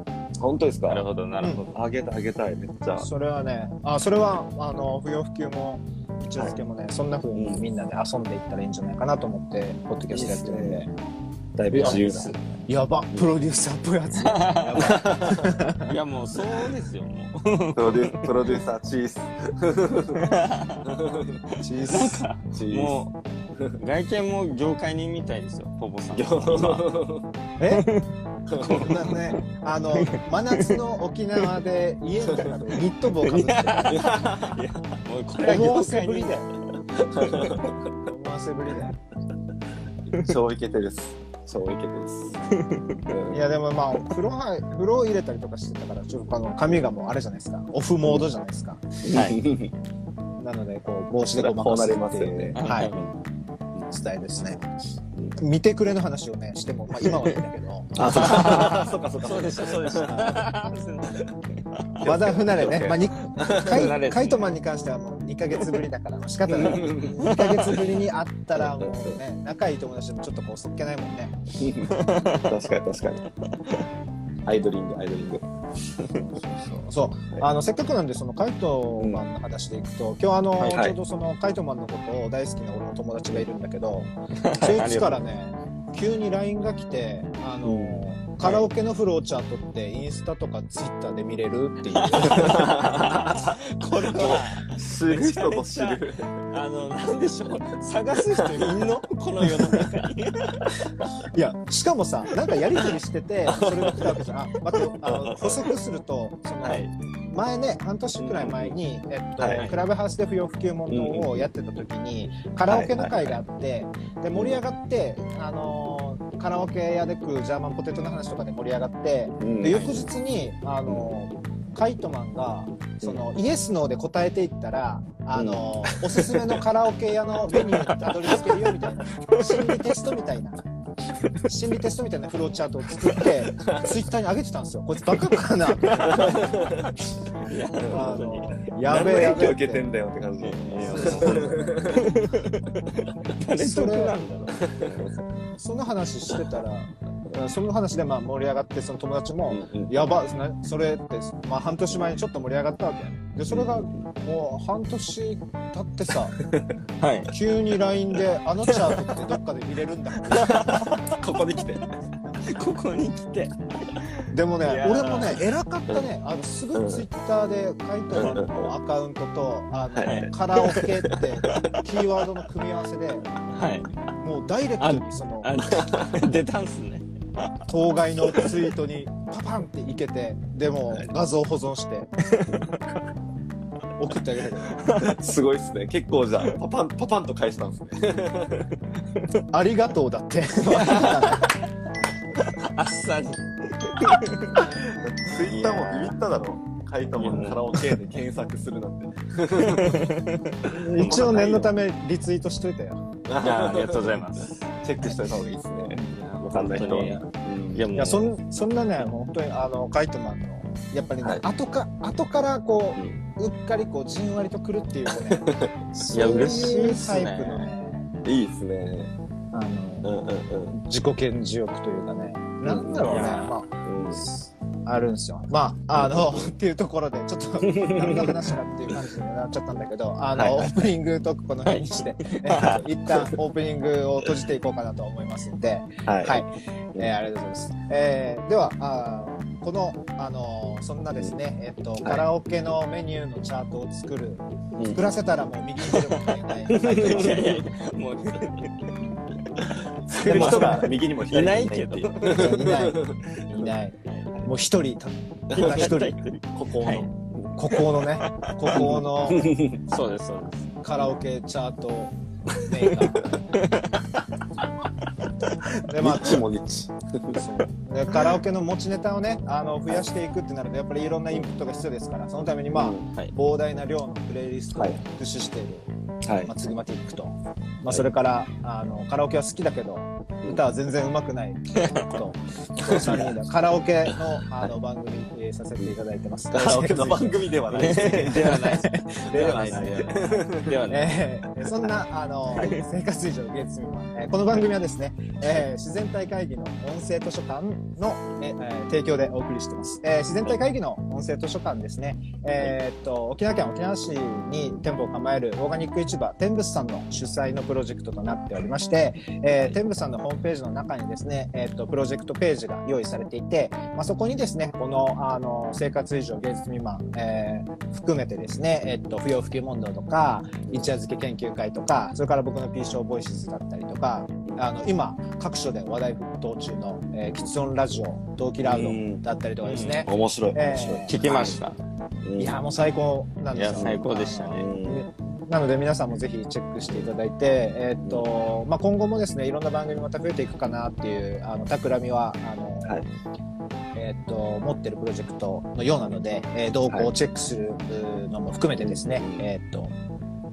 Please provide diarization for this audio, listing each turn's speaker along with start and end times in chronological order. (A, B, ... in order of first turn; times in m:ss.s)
0:00.4-0:01.0 A
0:00.9-0:01.8 B
0:01.7-0:03.1 A
0:03.0-0:10.9 C
0:07.3-0:07.6 A
0:10.1-0:10.9 A
0:11.5-0:12.4 A
0:11.7-0:12.6 B
0:11.7-0:12.0 C
0:12.6-0:15.9 C
0:14.2-0:15.0 B
0:14.8-0:15.5 A
0:15.8-0:18.6 B
0:17.8-0:20.2 A
0:20.2-0:20.9 B
0:20.9-0:21.4 A
0:21.6-0:22.2 C
0:21.9-0:23.1 B
0:22.6-0:23.0 A
0:23.8-0:26.9 B
0:26.1-0:27.3 A
0:27.6-0:27.8 C
0:27.7-0:28.0 B
0:28.5-0:29.0 A
0:28.6-0:29.2 B
0:28.6-0:34.0 C
0:29.9-0:30.8 B
0:32.3-0:32.6 A
0:33.2-0:36.4 B
0:33.9-0:34.8 A
0:35.4-0:36.5 C
0:36.9-0:37.8 A
0:37.2-0:37.6 B
0:38.0-0:39.0 C
0:40.1-0:42.4 A
0:42.5-0:43.0 B
0:43.1-0:43.4 A
0:43.3-0:49.0 C
0:48.0-0:48.3 A
0:49.0-0:49.7 A
0:49.1-0:49.4 B
0:50.4-0:52.9 C
0:51.3-0:53.1 A
0:52.6-0:53.2 B
0:53.9-0:54.7 C
0:55.4-0:58.8 C
0:57.9-1:00.4 A
0:58.1-1:02.0 B
1:00.1-1:00.4 C
1:02.0-1:04.0 A
1:02.0-1:11.4 C
1:03.4-1:04.6 B
1:06.5-1:07.8 A
1:06.5-1:07.9 B
1:08.5-1:09.2 A
1:11.6-1:13.3 A
1:11.9-1:12.4 B
1:14.4-1:15.4 A
1:16.2-1:32.8 C
1:19.0-1:19.2 A
1:20.7-1:21.0 A
1:24.4-1:25.2 B
1:27.6-1:28.5 A
1:28.4-1:28.7 B
1:32.0-1:40.7 B
1:32.3-1:33.5 A
1:34.1-1:36.4 A
1:41.3-2:10.7 C
1:45.0-1:45.4 A
1:46.6-1:46.9 B
1:48.2-1:48.8 A
1:49.4-1:49.7 A
1:49.5-1:49.8 B
1:50.9-1:51.5 A
1:52.7-1:53.4 A
1:54.3-1:54.6 A
1:59.4-1:59.8 A
1:59.6-2:00.0 B
2:00.9-2:01.2 A
2:05.3-2:06.5 A
2:09.3-2:09.8 B
2:11.4-2:16.3 C
2:13.6-2:13.9 A
2:15.8-2:16.8 B
2:16.0-2:16.7 A
2:17.4-2:19.5 B
2:17.9-2:19.8 C
2:18.0-2:18.3 A
2:18.8-2:22.0 A
2:20.4-2:25.2 B
2:20.7-2:21.8 C
2:23.6-2:24.1 C
2:25.6-2:36.3 C
2:29.5-2:29.9 A
2:33.5-2:34.1 A
2:36.5-2:36.7 A
2:37.0-2:37.3 B
2:37.3-2:40.6 C
2:38.7-2:39.0 B
2:40.3-2:41.0 B
2:40.4-2:41.8 A
2:42.4-2:46.0 B
2:44.3-2:53.2 C
2:46.7-2:47.1 A
2:48.1-2:48.7 A
2:49.9-2:51.7 A
2:50.0-2:51.0 B
2:53.5-2:53.9 B
2:54.2-2:55.5 C
2:54.8-2:57.5 B
2:55.8-2:56.2 A
2:57.7-3:02.1 C
3:02.4-3:02.8 B
3:04.0-3:04.8 C
3:05.0-3:08.7 A
3:09.5-3:11.4 C
3:10.7-3:11.6 B
3:12.4-3:16.2 B
3:14.9-3:20.0 A
3:17.2-3:17.8 B
3:17.2-3:17.5 C
3:19.6-3:21.6 B
3:20.7-3:23.0 C
3:20.8-3:21.7 A
3:23.3-3:27.9 A
3:23.4-3:24.5 B
3:25.9-3:27.2 C
3:26.1-3:28.3 B
3:27.9-3:38.1 C
3:33.0-3:33.2 A
3:35.1-3:36.7 A
3:36.1-3:37.7 B
3:38.2-3:39.1 A
3:39.5-3:40.1 C
3:40.0-3:40.8 A
3:40.7-4:07.5 C
3:42.6-3:44.3 A
3:43.0-3:43.6 B
3:45.9-3:46.5 A
3:47.6-3:48.4 A
3:50.3-3:50.7 A
3:51.6-3:52.8 B
3:52.6-3:53.3 A
3:56.0-3:56.4 A
4:04.7-4:05.2 A
4:06.7-4:07.6 A
4:06.7-4:08.7 B
4:09.0-4:09.2 C
4:10.1-4:12.8 B
4:10.1-4:13.7 A
4:10.2-4:10.9 C
4:12.2-4:16.2 C
4:15.5-4:16.0 A
4:15.6-4:17.1 B
4:16.5-4:17.6 A
4:17.6-4:19.6 C
4:17.7-4:18.9 B
4:18.7-4:19.8 A
4:19.9-4:20.7 B
4:20.8-4:23.4 C
4:22.9-4:24.2 B
4:25.8-4:26.4 C
4:26.0-4:27.4 A
4:27.3-4:35.9 C
4:32.7-4:33.0 A
4:34.7-4:35.0 A
4:36.2-4:36.5 A
4:36.4-4:50.1 C
4:42.8-4:43.4 A
4:44.0-4:44.7 A
4:46.5-4:48.7 A
4:47.7-4:51.2 B
4:49.3-4:50.8 A
4:50.9-5:31.2 C
4:51.6-4:51.9 A
4:52.5-4:52.8 A
5:09.5-5:09.8 A
5:28.6-5:29.2 A
5:29.6-5:30.1 B
5:30.1-5:31.6 A
5:31.1-5:31.8 B
5:32.2-5:32.6 A
5:32.4-5:43.0 C
5:33.5-5:34.7 B
5:33.7-5:35.0 A
5:43.9-5:49.9 C
5:46.9-5:47.1 A
5:48.8-5:49.4 A